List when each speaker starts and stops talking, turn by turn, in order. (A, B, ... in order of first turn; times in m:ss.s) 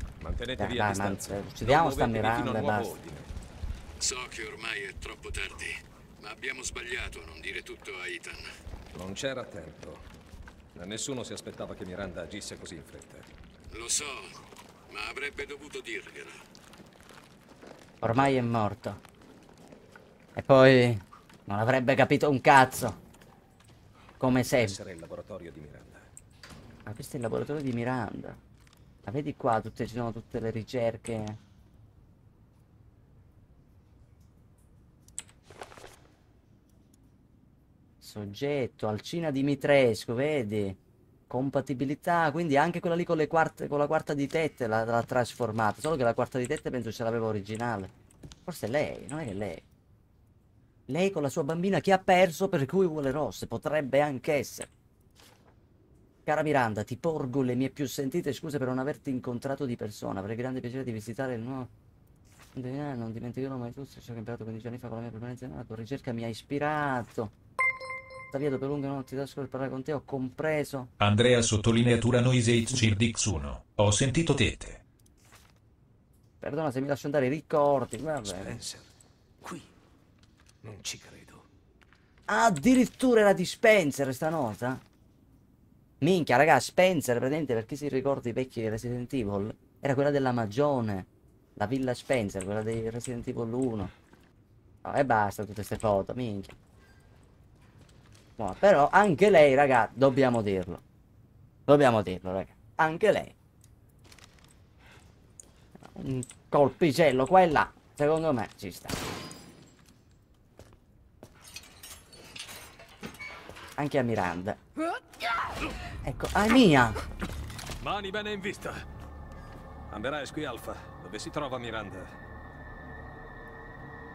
0:00.2-0:03.3 A
0:00.6-0:02.9 B
0:04.0-0:08.4 C
0:08.9-0:10.0 A
0:10.7-0:13.3 A
0:13.7-0:14.4 C
0:14.9-0:16.4 C
0:18.0-0:19.0 B
0:20.4-0:23.0 B
0:24.2-0:24.8 B
0:24.4-0:26.1 A
0:26.8-0:28.4 B
0:29.0-0:31.4 B
0:38.0-0:40.8 B
0:41.3-0:47.9 B
0:48.4-0:49.6 B
0:50.9-0:54.7 B
0:56.2-1:01.7 B
1:02.5-1:07.3 B
1:08.3-1:10.9 B
1:11.0-1:14.8 D
1:16.4-1:18.6 B
1:18.2-1:19.7 A
1:20.6-1:21.4 A
1:22.3-1:24.8 B
1:26.0-1:33.9 B
1:34.8-1:36.5 B
1:38.4-1:40.8 B
1:41.7-1:43.3 B
1:45.8-1:49.0 B
1:53.8-1:54.6 B
1:56.0-1:57.0 B
1:57.8-1:58.8 A
1:59.9-2:02.1 A